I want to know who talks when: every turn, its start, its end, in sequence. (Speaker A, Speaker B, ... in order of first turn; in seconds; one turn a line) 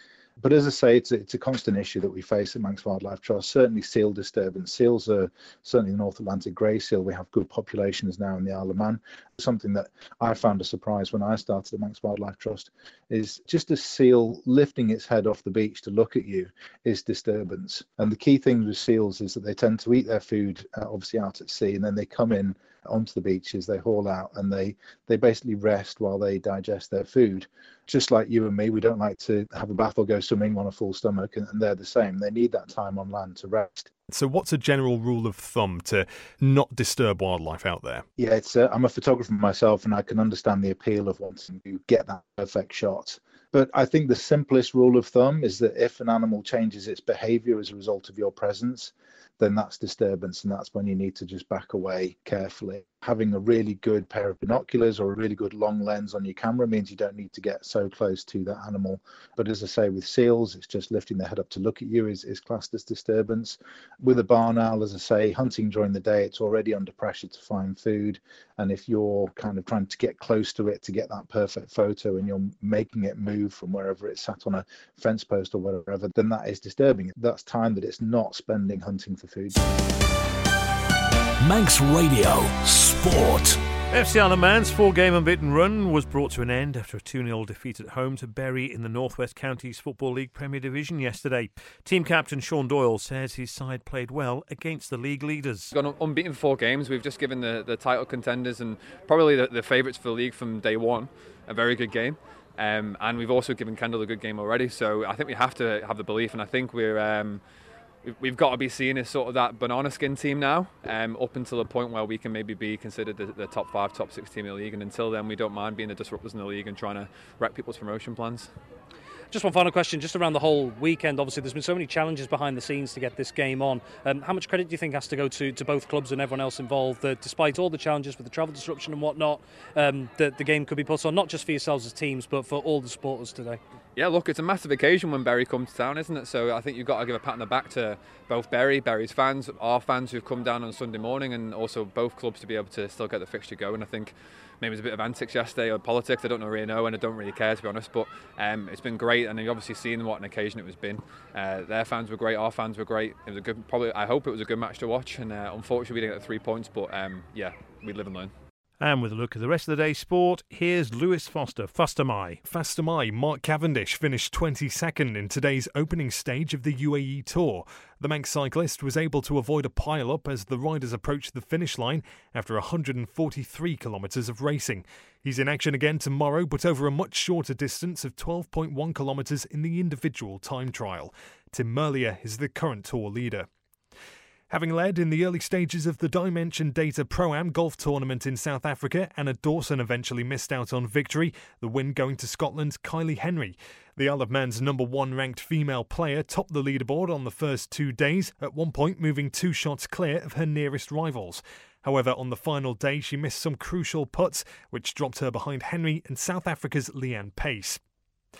Speaker A: 0.4-33.9
Speaker B: 34.1-38.0
Speaker A: 38.2-79.6
Speaker C: 81.4-83.6
Speaker D: 83.9-95.7
Speaker E: 95.7-107.4
Speaker E: 108.0-118.5
Speaker F: 119.3-133.6
Speaker E: 133.9-158.3
Speaker D: 158.8-162.4
Speaker B: 162.4-183.5
Speaker B: 184.5-207.8